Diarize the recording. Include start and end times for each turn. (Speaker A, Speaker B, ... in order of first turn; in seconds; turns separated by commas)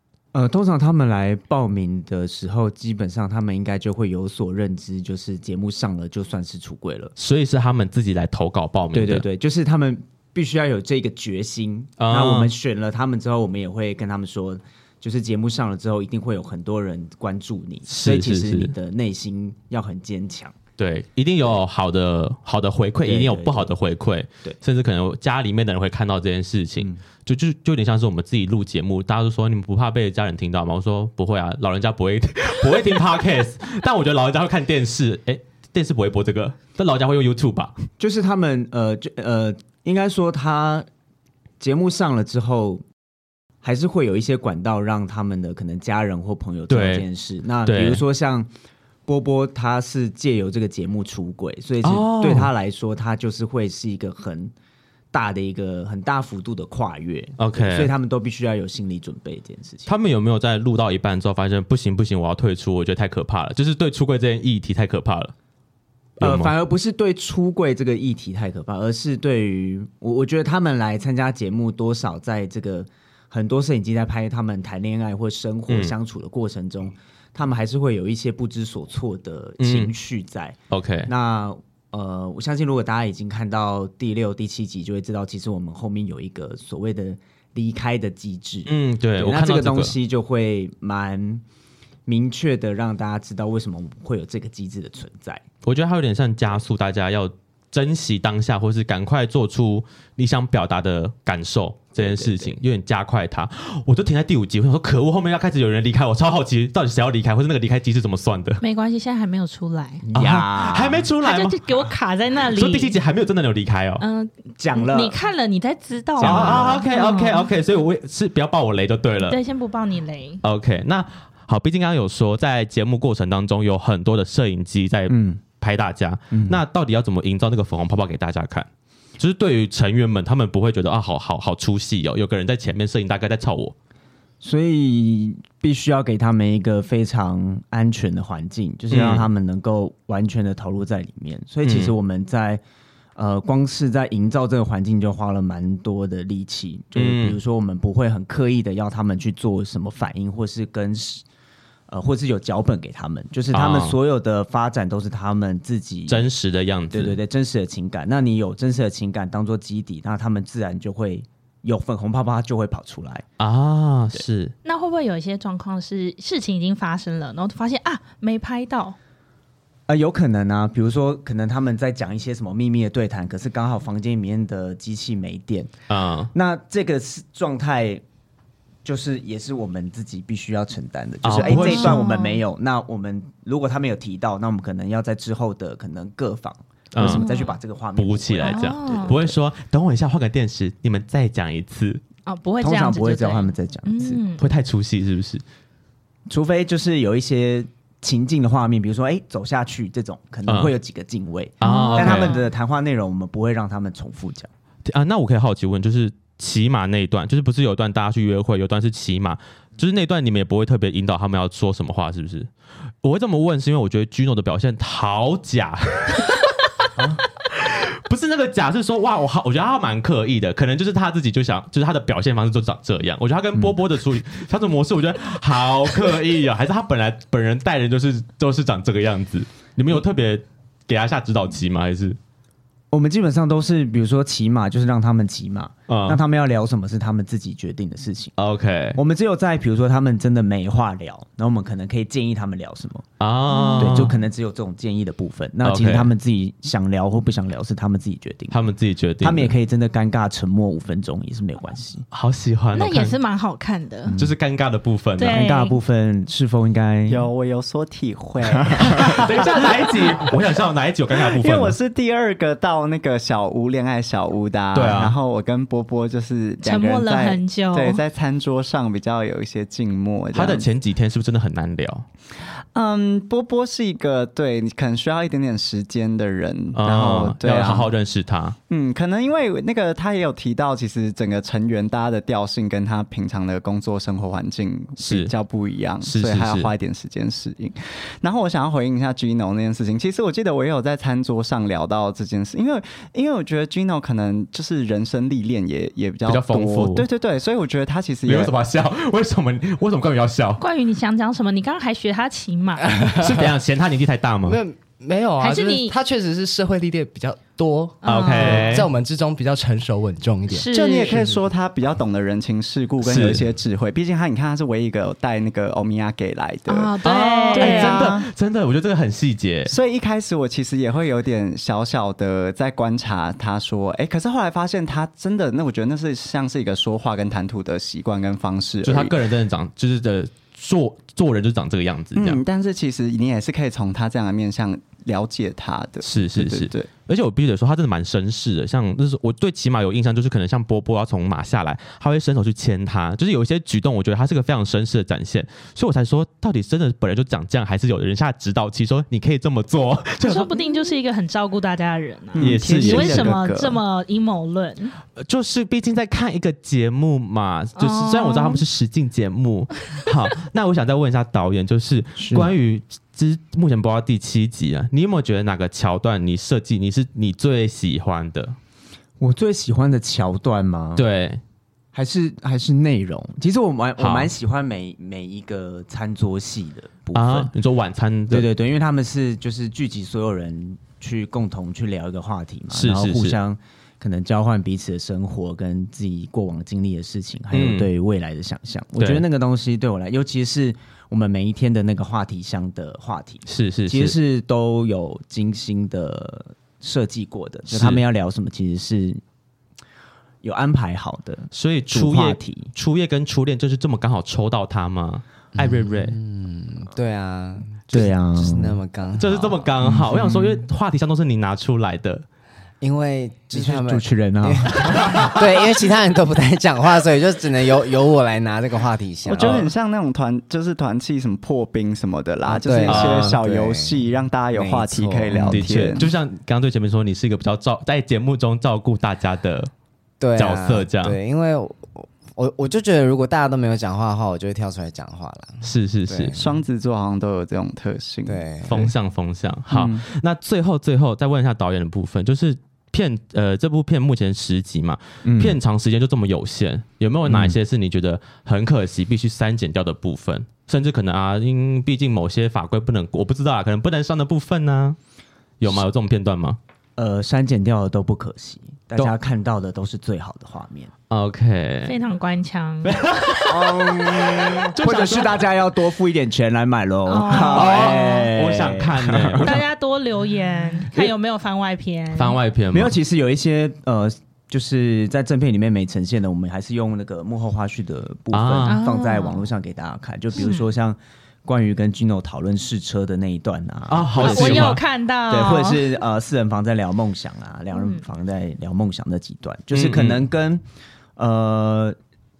Speaker A: 0.3-7.1, Speaker B: 7.2-9.2, Speaker A: 8.9-20.5, Speaker B: 12.0-12.5, Speaker B: 17.9-18.7, Speaker B: 20.8-37.8, Speaker A: 23.1-23.7, Speaker A: 38.0-40.9, Speaker A: 41.6-42.8, Speaker A: 43.6-48.5, Speaker B: 46.7-47.1, Speaker B: 47.6-48.0, Speaker A: 49.1-54.5, Speaker B: 51.8-52.5, Speaker A: 55.1-59.9, Speaker B: 57.4-57.9, Speaker B: 59.9-65.3, Speaker B: 66.2-66.5, Speaker A: 66.2-80.6, Speaker B: 75.7-75.9, Speaker B: 79.6-79.9, Speaker B: 80.7-81.1, Speaker A: 81.1-91.4, Speaker B: 88.7-90.0, Speaker A: 92.1-95.4, Speaker B: 95.6-108.6, Speaker A: 102.0-102.6, Speaker C: 108.6-110.0, Speaker A: 110.0-111.1, Speaker B: 110.2-111.9, Speaker C: 111.2-113.0, Speaker B: 112.5-114.0, Speaker C: 114.0-117.5, Speaker A: 114.6-115.2, Speaker A: 116.2-116.9, Speaker B: 116.2-119.4, Speaker C: 119.2-120.4, Speaker B: 120.4-128.7, Speaker A: 125.1-125.4, Speaker A: 126.3-126.6, Speaker B: 129.2-133.8, Speaker A: 134.4-142.6, Speaker B: 138.9-139.3, Speaker B: 141.6-141.9, Speaker A: 143.2-151.2, Speaker B: 146.9-147.4, Speaker A: 151.9-156.3, Speaker B: 153.5-154.0, Speaker B: 156.1-157.2, Speaker A: 156.9-163.3, Speaker B: 163.4-164.5, Speaker C: 164.7-169.0, Speaker A: 169.9-175.7, Speaker B: 175.9-176.3, Speaker A: 176.3-178.0, Speaker A: 178.8-189.2, Speaker B: 181.2-182.0, Speaker C: 181.4-182.4, Speaker B: 186.9-187.3, Speaker C: 187.0-187.5, Speaker B: 188.0-192.0, Speaker C: 188.4-189.2, Speaker C: 192.3-194.4, Speaker A: 192.6-194.3, Speaker B: 194.4-195.4, Speaker A: 196.3-204.5, Speaker B: 200.5-200.7, Speaker B: 201.6-202.4, Speaker C: 201.6-202.5, Speaker B: 204.9-212.5, Speaker B: 213.0-232.2, Speaker A: 232.9-238.3, Speaker B: 235.9-236.2, Speaker B: 238.4-239.0, Speaker A: 238.9-243.1, Speaker B: 243.2-244.2, Speaker C: 243.5-244.2, Speaker A: 243.8-248.6, Speaker B: 245.6-246.1, Speaker B: 248.5-249.5, Speaker A: 249.2-252.1, Speaker B: 252.1-253.2, Speaker C: 252.7-254.1, Speaker A: 254.1-254.4, Speaker B: 254.2-255.4, Speaker C: 255.2-255.8, Speaker A: 255.2-257.3, Speaker D: 257.1-260.3, Speaker B: 258.8-261.8, Speaker D: 261.1-270.7, Speaker B: 264.7-265.2, Speaker C: 266.6-268.0, Speaker B: 270.3-272.1, Speaker D: 272.7-277.9, Speaker B: 276.8-278.6, Speaker D: 278.7-298.6, Speaker B: 285.0-285.3, Speaker B: 286.0-286.7, Speaker B: 296.3-297.1, Speaker B: 298.3-300.6, Speaker C: 300.6-302.9, Speaker E: 302.9-303.5, Speaker B: 303.1-304.6, Speaker E: 304.5-310.7, Speaker C: 305.4-305.9, Speaker C: 308.0-308.9, Speaker B: 308.0-308.9, Speaker C: 310.5-311.4, Speaker D: 310.7-317.0, Speaker B: 313.0-313.5, Speaker C: 316.7-318.1, Speaker B: 317.0-319.7, Speaker D: 317.5-318.3, Speaker D: 319.7-329.2, Speaker B: 328.8-332.4, Speaker D: 332.1-336.9, Speaker B: 336.0-350.5, Speaker C: 350.2-354.9, Speaker D: 352.4-353.8, Speaker B: 352.4-353.4, Speaker B: 355.2-368.6, Speaker C: 357.8-358.6, Speaker A: 362.2-362.5, Speaker A: 369.2-371.0, Speaker B: 371.0-371.4, Speaker A: 371.9-377.5, Speaker B: 374.0-374.3, Speaker B: 377.1-378.5, Speaker A: 378.3-399.2, Speaker B: 382.7-383.4, Speaker B: 387.5-387.9, Speaker B: 389.0-389.2, Speaker B: 393.5-394.1, Speaker B: 397.7-398.0, Speaker A: 400.4-402.7, Speaker B: 401.5-406.1, Speaker F: 405.6-409.7, Speaker A: 407.9-408.8, Speaker B: 409.2-412.2, Speaker A: 409.8-410.6, Speaker F: 412.8-419.7, Speaker A: 413.5-415.4, Speaker D: 419.2-426.1, Speaker B: 419.4-419.7, Speaker F: 422.5-425.9, Speaker B: 422.9-423.4, Speaker B: 425.5-429.7, Speaker F: 430.2-436.6, Speaker B: 430.4-431.2, Speaker B: 435.6-436.3, Speaker D: 436.4-438.5, Speaker F: 438.3-438.9, Speaker B: 438.7-455.0, Speaker A: 439.7-440.0, Speaker A: 445.2-445.6, Speaker A: 447.3-447.6, Speaker B: 455.6-456.6, Speaker A: 457.0-460.9, Speaker B: 461.1-461.9, Speaker C: 461.9-463.0, Speaker B: 462.9-465.5, Speaker A: 463.5-469.6, Speaker C: 467.1-468.3, Speaker B: 467.3-469.6, Speaker C: 469.4-472.4, Speaker B: 472.1-472.9, Speaker A: 472.7-490.6, Speaker B: 478.3-478.8, Speaker C: 478.6-479.5, Speaker C: 480.4-480.7, Speaker B: 483.9-484.8, Speaker C: 484.2-486.0, Speaker C: 487.8-488.0, Speaker B: 489.7-490.2, Speaker A: 491.2-492.0